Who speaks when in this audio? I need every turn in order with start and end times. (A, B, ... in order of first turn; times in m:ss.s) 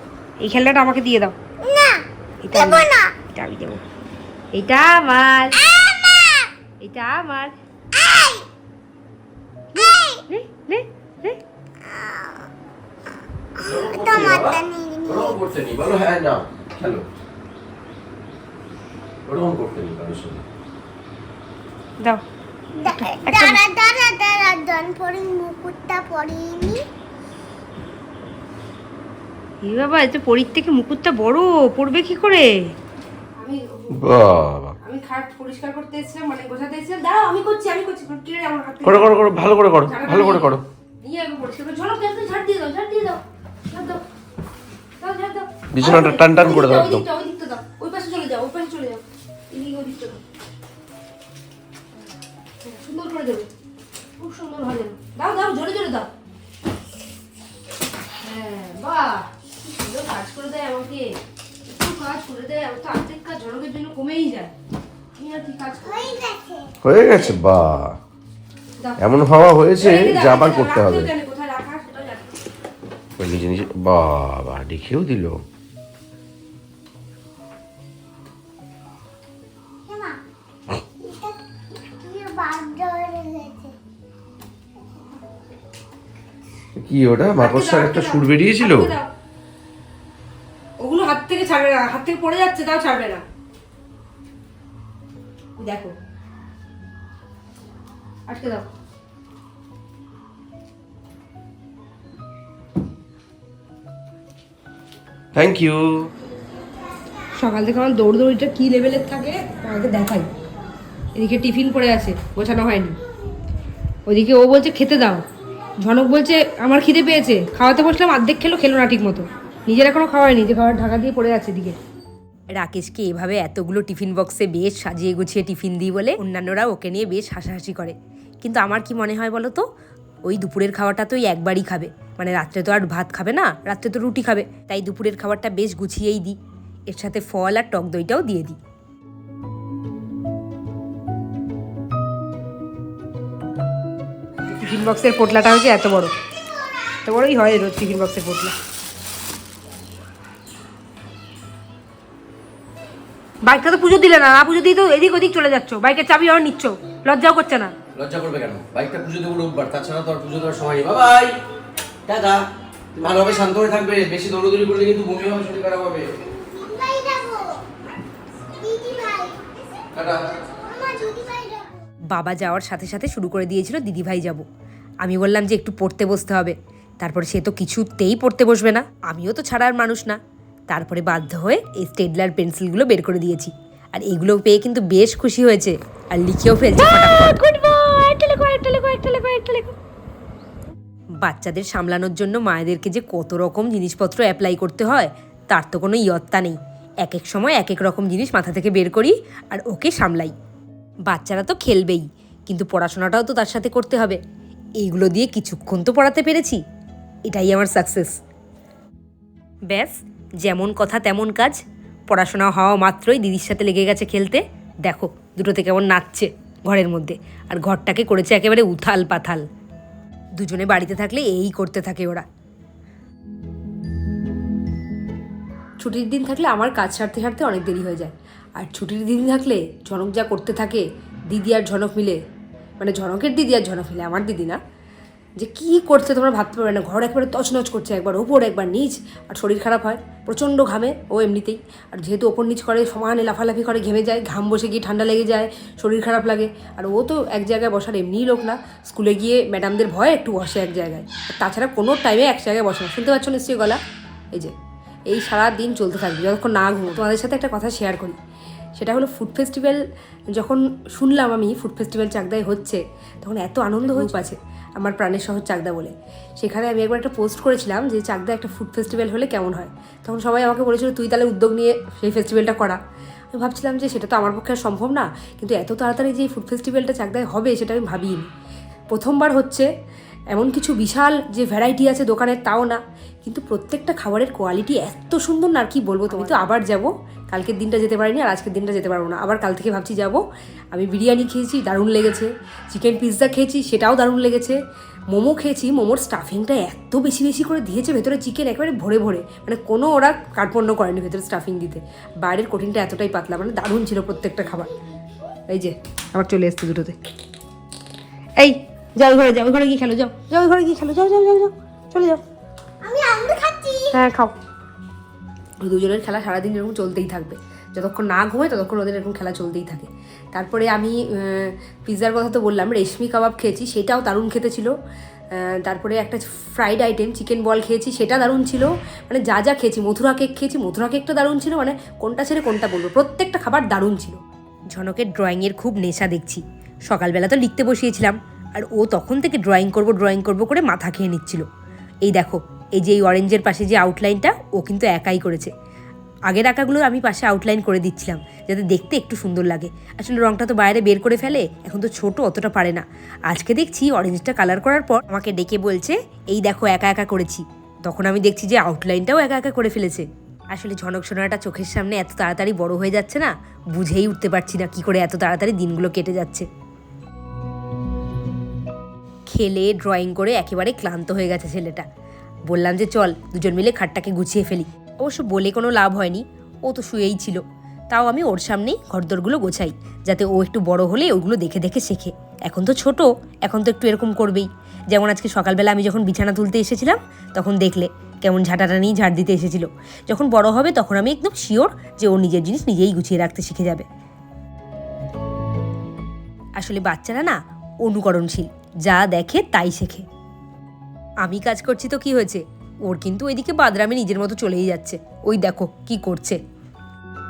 0:00.4-0:01.4 A
0:01.6-0:02.0 B
0:02.4-0:03.8 A
0:02.6-0:03.1 B
0:04.5-0:05.7 A
0:06.0-0:06.4 B
0:06.8-0:07.5 A
0:08.0-0:08.4 B
0:09.7-0:11.4 A
0:09.8-0:10.2 B
0:12.0-0:12.3 B
0:13.6-0:17.0 C
0:13.7-0:15.2 B
0:19.2-0:20.4 C
0:22.8-0:26.8 B
0:22.8-0:23.6 A
0:29.6-0:32.7 A
0:33.4-0:39.2 A
0:38.9-0:40.6 C
0:39.8-0:44.0 A
0:45.0-0:50.2 A
0:45.8-0:47.0 C
0:52.6-0:53.5 A
0:54.2-0:56.1 A
0:58.2-1:04.5 A
1:05.2-1:06.3 A
1:06.0-1:06.8 B
1:08.8-1:09.1 A
1:09.7-1:12.4 A
1:10.4-1:11.0 C
1:14.3-1:15.4 C
1:19.9-1:20.2 B
1:20.9-1:23.8 B
1:27.4-1:29.1 A
1:27.4-1:28.6 C
1:30.8-1:33.2 A
1:35.6-1:36.0 A
1:38.3-1:38.6 A
1:45.3-1:46.1 C
1:47.4-1:50.3 A
1:51.1-1:53.0 A
1:54.1-1:55.2 A
1:55.8-2:01.8 A
2:02.5-2:09.6 A
2:10.2-2:18.6 A
2:24.4-2:26.1 A
2:27.0-2:28.5 A
2:33.4-2:37.7 A
2:37.9-2:41.4 C
2:42.0-2:46.1 C
2:46.4-2:47.6 B
2:48.6-2:49.4 B
2:49.9-2:50.4 C
2:50.7-2:51.7 B
2:52.1-2:54.4 A
2:55.0-3:00.2 A
3:00.7-3:09.7 A
3:11.2-3:20.3 A
3:21.1-3:24.2 A
3:24.8-3:26.6 A
3:27.3-3:28.2 A
3:29.7-3:39.5 A
3:40.4-3:42.2 A
3:45.8-3:52.2 A
3:52.8-3:54.6 A
3:55.4-4:13.8 A
4:15.1-4:18.2 A
4:18.8-4:32.8 A
4:33.3-4:38.3 A
4:38.9-4:39.7 A
4:40.3-4:50.2 A
4:50.7-5:04.7 A
5:05.5-5:07.0 A
5:08.4-5:12.2 A
5:12.8-5:14.0 B
5:13.9-5:14.3 A
5:15.6-5:24.7 A
5:25.3-5:34.2 A
5:34.7-5:41.4 A
5:42.0-5:45.5 A
5:46.3-6:06.5 A
6:09.3-6:11.9 A
6:12.5-6:33.8 A
6:36.6-6:40.1 A
6:41.2-6:46.4 A